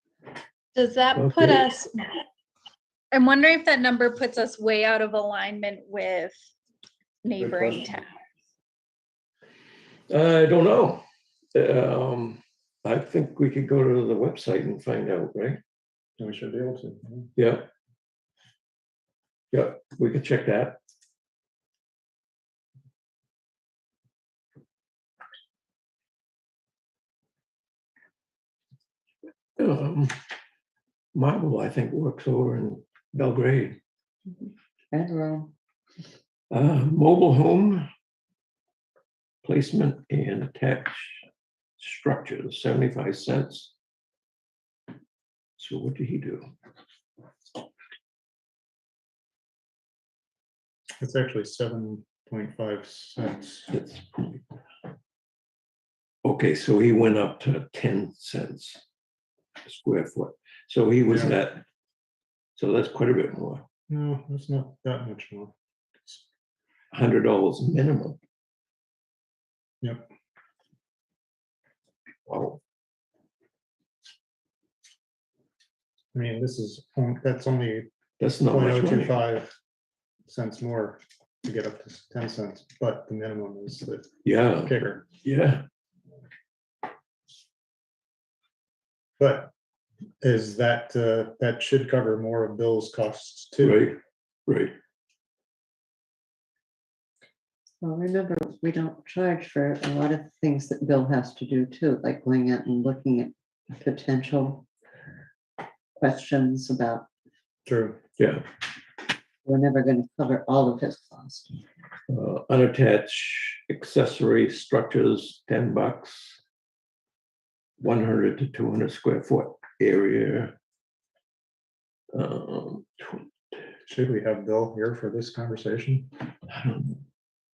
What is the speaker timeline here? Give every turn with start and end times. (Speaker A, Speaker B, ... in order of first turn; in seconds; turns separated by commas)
Speaker A: 0.7-2.1, Speaker B: 1.1-1.7, Speaker A: 3.1-6.3, Speaker A: 7.2-8.1, Speaker C: 7.4-8.0, Speaker B: 10.1-15.6, Speaker C: 16.2-17.3, Speaker B: 17.4-17.7, Speaker B: 19.5-20.8, Speaker B: 29.6-30.1, Speaker B: 31.1-33.8, Speaker D: 34.4-35.5, Speaker B: 36.5-37.9, Speaker B: 39.4-41.2, Speaker B: 41.8-43.7, Speaker B: 45.6-46.5, Speaker C: 51.0-53.7, Speaker B: 53.7-54.4, Speaker B: 56.2-58.8, Speaker B: 59.6-61.6, Speaker C: 61.1-61.4, Speaker B: 62.5-63.6, Speaker C: 63.9-65.5, Speaker B: 66.9-68.2, Speaker B: 72.3-72.6, Speaker C: 76.1-77.9, Speaker B: 78.2-79.2, Speaker C: 78.4-79.5, Speaker C: 80.3-84.1, Speaker B: 84.2-85.6, Speaker C: 84.6-85.0, Speaker C: 89.2-89.5, Speaker C: 90.2-93.9, Speaker B: 93.6-94.8, Speaker D: 97.8-104.6, Speaker D: 106.0-107.0, Speaker C: 107.7-108.0, Speaker B: 108.2-108.4, Speaker D: 109.4-111.6, Speaker B: 112.1-116.4, Speaker B: 117.8-120.5, Speaker B: 122.1-123.2, Speaker C: 123.8-126.2, Speaker B: 126.5-127.0